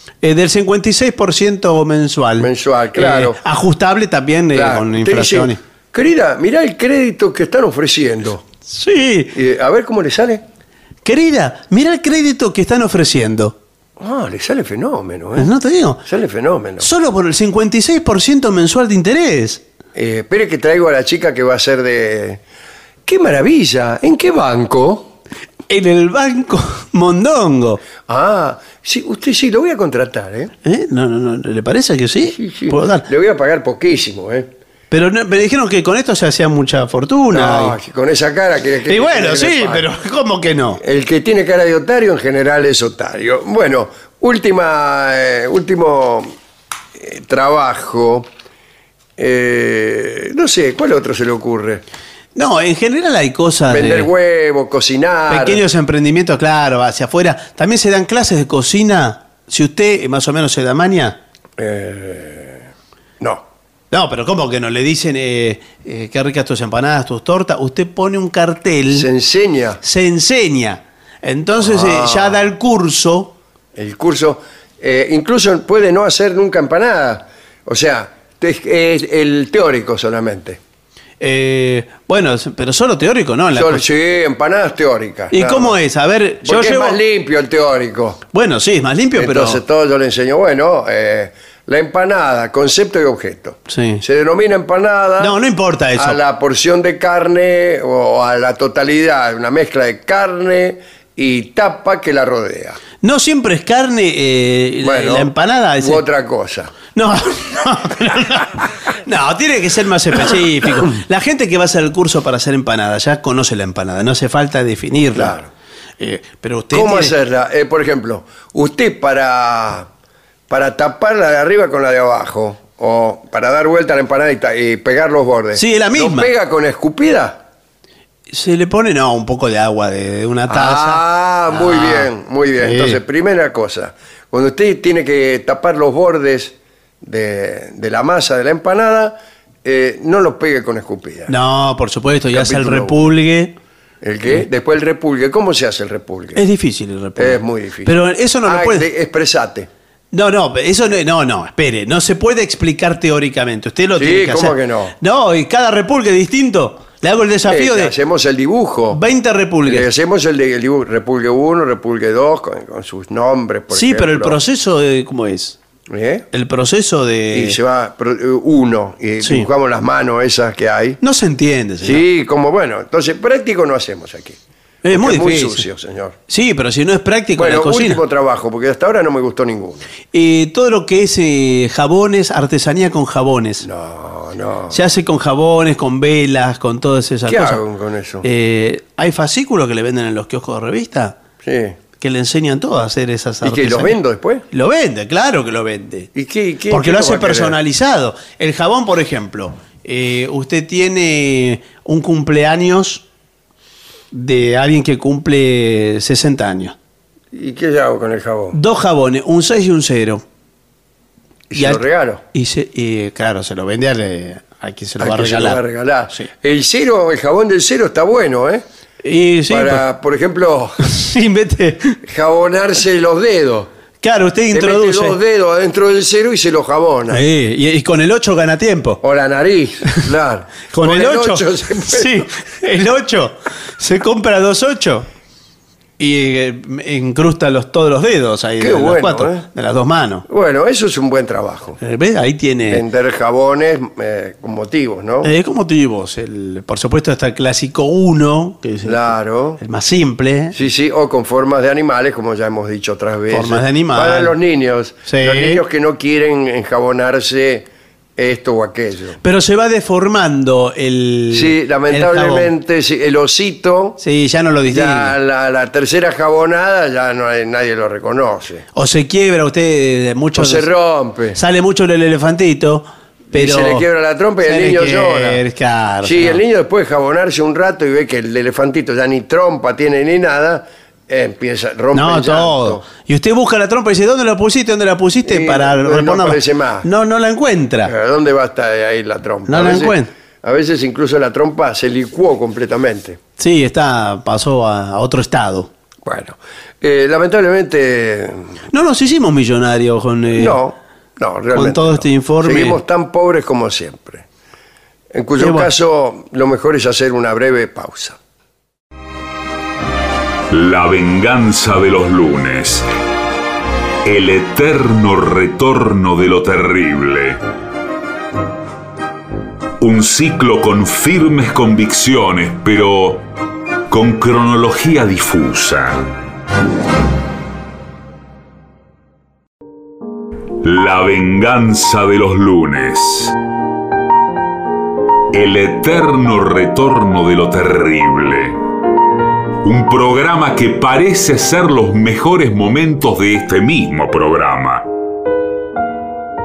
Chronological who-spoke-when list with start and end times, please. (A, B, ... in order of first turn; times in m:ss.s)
0:00.2-0:05.6 A
0:02.4-0:03.4 B
0:04.5-0:08.4 B
0:08.7-0:09.4 A
0:09.3-0:10.4 B
0:11.0-0:13.6 A
0:14.0-0:15.5 B
0:15.4-0:16.0 A
0:16.1-0:16.9 B
0:16.8-0:19.6 A
0:20.0-0:22.4 B
0:23.0-0:25.1 B
0:25.7-0:27.8 A
0:28.1-0:30.5 B
0:30.6-0:33.1 A
0:32.3-0:34.5 B
0:34.9-0:37.8 A
0:37.3-0:39.9 B
0:38.9-0:40.8 A
0:40.8-0:46.3 B
0:47.0-0:48.3 B
0:49.2-0:51.8 B
0:52.4-0:54.1 A
0:53.7-0:55.6 B
0:55.3-1:01.2 A
1:01.6-1:02.7 B
1:03.9-1:09.1 A
1:08.9-1:09.8 B
1:09.8-1:13.3 A
1:11.6-1:12.5 B
1:13.8-1:20.6 B
1:21.2-1:23.9 A
1:23.5-1:25.8 B
1:25.3-1:27.0 A
1:26.4-1:28.2 B
1:28.3-1:29.6 A
1:29.2-1:35.4 B
1:33.7-1:34.0 A
1:35.2-1:36.2 A
1:36.0-1:42.8 B
1:43.0-1:46.0 A
1:44.8-1:46.7 B
1:46.9-1:55.4 A
1:55.2-1:55.5 B
1:56.0-1:57.1 A
1:56.7-1:59.9 B
2:00.5-2:07.4 B
2:05.6-2:06.3 A
2:08.3-2:13.0 A
2:10.5-2:21.3 B
2:21.3-2:23.5 A
2:22.3-2:23.0 B
2:24.0-2:26.4 B
2:26.4-2:28.9 A
2:27.2-2:29.7 B
2:30.1-2:37.9 A
2:34.0-2:34.9 B
2:37.4-2:39.0 B
2:38.9-2:39.9 A
2:39.7-2:44.4 B
2:43.7-2:45.6 A
2:45.9-2:46.3 B
2:46.3-2:47.6 A
2:47.3-2:51.0 B
2:49.2-2:49.5 A
2:51.0-2:52.0 A
2:51.8-2:54.4 B
2:54.8-2:55.7 A
2:54.9-2:56.2 B
2:56.3-2:58.0 A
2:57.4-2:59.8 B
3:00.1-3:03.7 A
3:03.6-3:04.8 B
3:04.7-3:07.6 A
3:07.3-3:08.2 B
3:08.2-3:11.2 A
3:11.4-3:11.8 B
3:12.0-3:14.0 A
3:13.4-3:14.4 B
3:14.5-3:16.1 A
3:16.2-3:17.6 B
3:16.7-3:23.0 A
3:24.1-3:26.8 A
3:27.3-3:28.6 B
3:28.5-3:30.2 A
3:31.5-3:32.2 B
3:31.6-3:35.6 A
3:35.0-3:38.6 B
3:39.0-3:39.8 A
3:39.5-3:40.8 B
3:40.8-3:42.0 A
3:42.0-3:43.7 B
3:44.0-3:45.2 A
3:44.5-3:47.2 B
3:47.1-3:49.0 A
3:49.0-3:52.3 B
3:50.7-3:55.1 A
3:56.0-4:00.2 A
3:58.6-3:59.5 B
4:00.3-4:01.8 B
4:01.8-4:02.8 A
4:02.7-4:05.3 B
4:05.2-4:10.6 A
4:08.8-4:09.6 B
4:10.5-4:19.2 B
4:13.3-4:14.4 A
4:15.1-4:15.6 A
4:19.2-4:22.5 A
4:21.3-4:24.0 B
4:24.0-4:25.2 A
4:24.7-4:28.6 B
4:28.8-4:30.7 A
4:30.4-4:31.4 B
4:31.4-4:33.8 A
4:33.3-4:35.4 B
4:34.4-4:36.4 A
4:36.0-4:42.8 B
4:41.9-4:47.9 A
4:45.2-4:46.9 B
4:47.8-4:53.2 B
4:49.5-4:50.1 A
4:53.4-4:55.7 A
4:56.0-4:58.6 B
4:58.7-5:00.6 A
5:00.3-5:04.3 B
5:01.5-5:02.8 A
5:05.1-5:08.2 B
5:05.4-5:05.7 A
5:10.5-5:12.9 C
5:14.0-5:17.4 C
5:19.8-5:23.2 C
5:23.9-5:26.0 C
5:30.6-5:33.4 C
5:35.3-5:38.6 C
5:39.6-5:44.9 C